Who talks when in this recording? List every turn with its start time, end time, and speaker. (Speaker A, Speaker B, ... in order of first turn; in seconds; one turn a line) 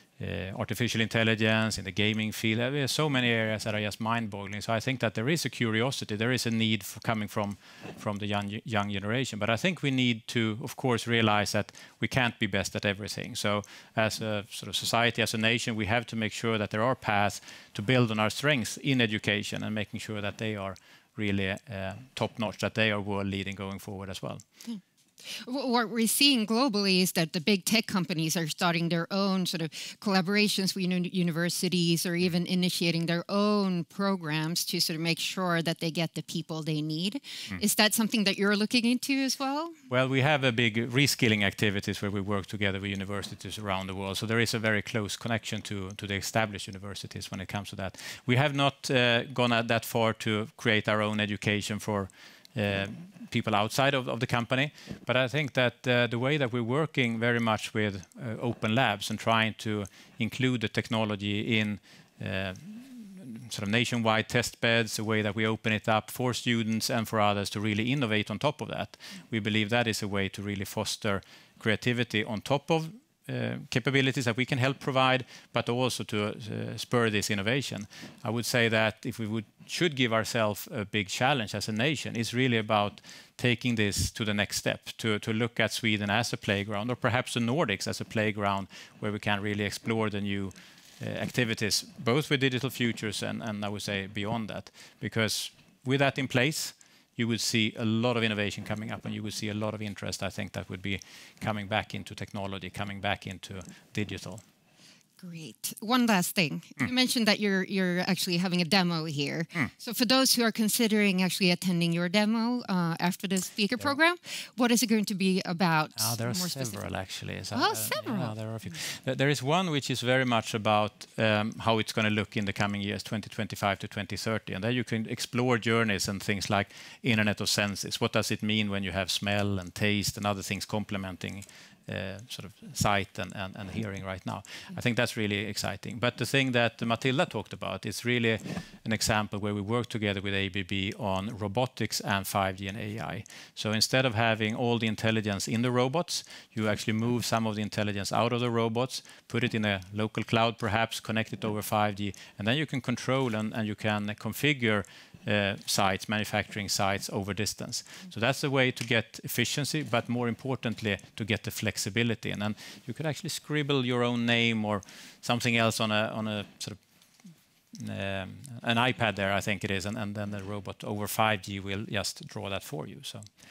Speaker A: 0.2-24.4
Speaker B: 24.7-39.8
Speaker A: 39.9-104.4
Speaker B: 105.2-116.9
Speaker A: 116.0-166.8
Speaker B: 117.5-118.3
Speaker A: 167.7-173.3